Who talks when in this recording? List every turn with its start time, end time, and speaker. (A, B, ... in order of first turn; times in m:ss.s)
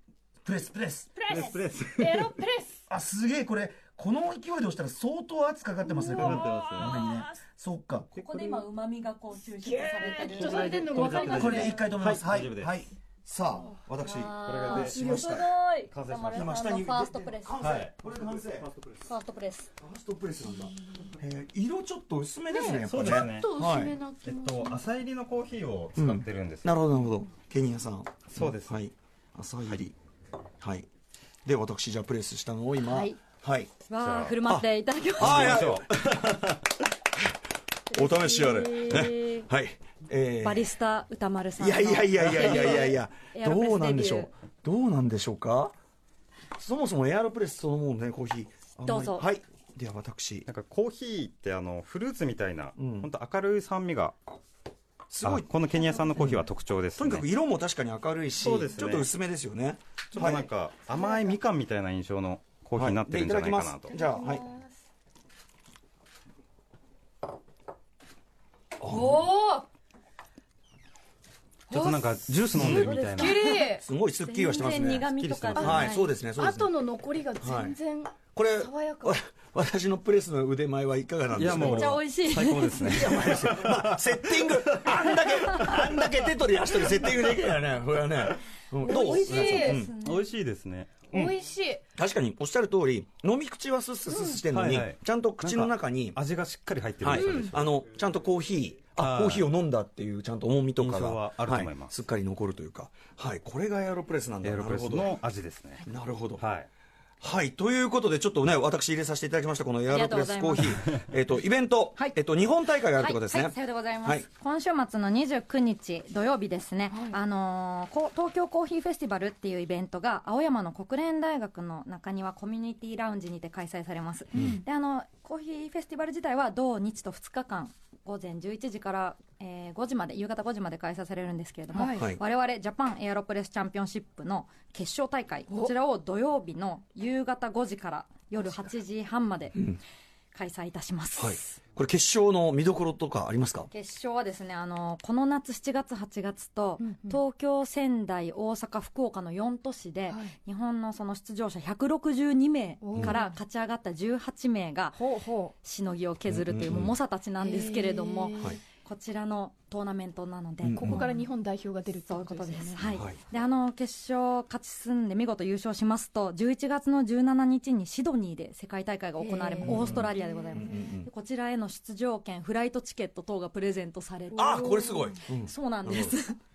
0:00.4-0:01.2 A
0:01.3-0:02.2 B
0:01.3-0:02.4 C
0:02.0-0:02.8 D
0:02.9-0:08.1 A
0:05.9-0:07.3 B
0:06.2-0:07.0 C
0:08.1-0:08.7 C
0:08.2-0:11.4 E
0:09.4-0:10.4 B
0:09.6-0:11.8 D
0:10.1-0:12.7 C
0:11.2-0:11.5 B
0:11.2-0:15.5 A
0:14.0-0:17.7 E
0:14.4-0:15.3 C
0:15.9-0:16.5 C
0:16.3-0:18.7 A
0:17.6-0:19.0 C
0:19.0-0:19.7 E
0:19.8-0:24.0 A
0:22.8-0:23.5 C
0:23.4-0:24.6 D
0:23.6-0:24.8 B
0:24.2-0:26.8 C
0:26.0-0:30.0 A
0:28.3-0:28.8 C
0:30.6-0:30.9 A
0:31.4-0:33.7 A
0:32.8-0:33.2 E
0:33.9-0:35.6 E
0:34.0-0:34.4 C
0:35.2-0:36.6 C
0:35.2-0:36.3 A
0:37.9-0:39.5 E
0:37.9-0:40.8 A
0:40.4-0:44.3 E
0:41.6-0:45.7 A
0:46.6-0:50.5 A
0:48.9-0:49.3 E
0:50.5-0:54.2 C
0:52.8-0:53.1 A
0:55.1-0:55.5 A
0:55.2-0:57.3 C
0:56.2-0:56.4 A
0:57.0-1:00.5 A
0:58.4-0:59.1 C
1:00.1-1:04.0 C
1:02.8-1:04.4 A
1:03.9-1:04.7 B
1:08.8-1:09.3 A
1:08.8-1:09.6 B
1:11.7-1:13.5 C
1:11.7-1:12.3 B
1:12.3-1:13.0 A
1:12.6-1:16.1 E
1:13.2-1:13.8 D
1:13.6-1:16.8 A
1:15.0-1:16.0 C
1:16.4-1:19.2 D
1:17.4-1:17.8 A
1:18.3-1:22.0 A
1:21.3-1:25.8 C
1:21.5-1:23.3 E
1:22.8-1:29.9 A
1:28.8-1:30.3 E
1:28.8-1:29.5 B
1:29.5-1:29.9 D
1:29.9-1:31.3 C
1:31.1-1:31.8 D
1:32.0-1:36.2 A
1:34.1-1:34.4 B
1:34.5-1:37.7 C
1:37.0-1:45.2 A
1:37.2-1:37.5 B
1:39.0-1:39.5 C
1:40.8-1:42.0 C
1:44.4-1:45.8 C
1:45.9-1:46.4 A
1:46.4-1:46.7 C
1:47.2-1:54.3 A
1:49.9-1:50.8 E
1:53.0-2:19.7 E
2:04.3-2:04.6 A
2:11.7-2:12.1 B
2:20.3-2:21.6 E
2:21.2-2:23.7 A
2:23.7-2:35.0 E
2:32.8-2:33.4 B
2:35.0-2:35.5 B
2:35.6-2:41.2 E
2:36.3-2:37.0 A
2:37.4-2:38.4 D
2:37.5-2:38.5 B
2:40.6-2:41.1 A
2:40.8-2:41.5 D
2:41.5-2:42.9 B
2:42.1-2:56.4 E
2:42.8-2:43.2 A
2:49.2-2:50.8 B
2:49.6-2:51.1 A
2:54.4-2:55.2 B
2:54.4-2:56.2 A